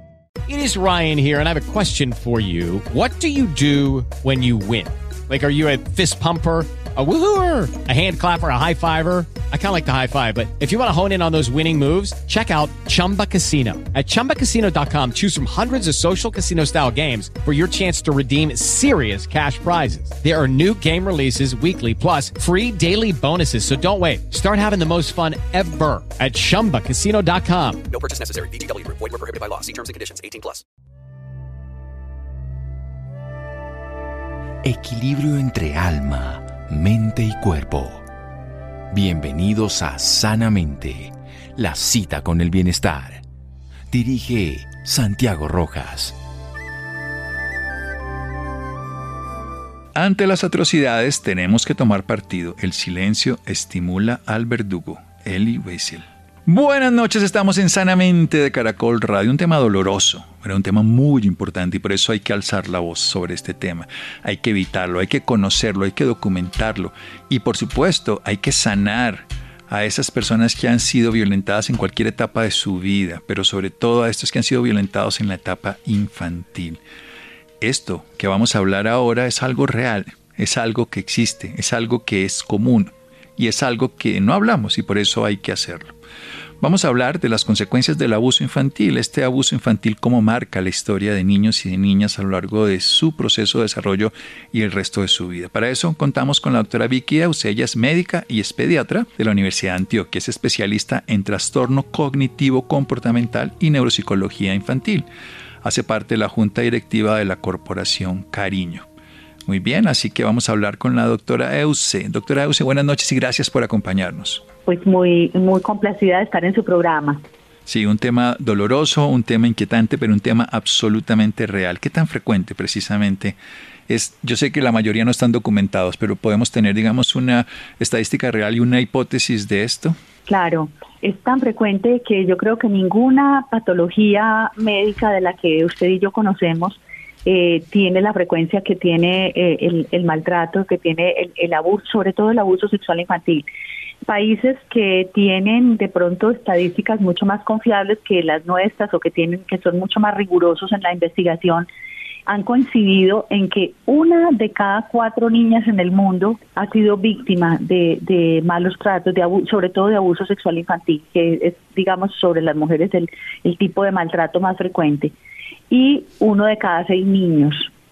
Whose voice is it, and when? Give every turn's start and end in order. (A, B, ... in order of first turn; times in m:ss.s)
0:00.5-0:27.8 A
0:27.9-0:30.6 B
0:34.6-0:38.0 C
0:38.9-0:43.2 C
0:43.9-0:46.2 C
0:49.9-1:16.8 D
1:17.6-1:25.9 D
1:26.6-1:45.0 D
1:45.6-1:48.8 D
1:49.4-1:54.4 D
1:54.6-1:57.2 E
1:57.7-2:03.4 D
2:03.9-2:10.0 D
2:10.3-2:23.4 E
2:24.0-2:31.7 E
2:32.3-2:45.1 E
2:45.7-2:47.7 E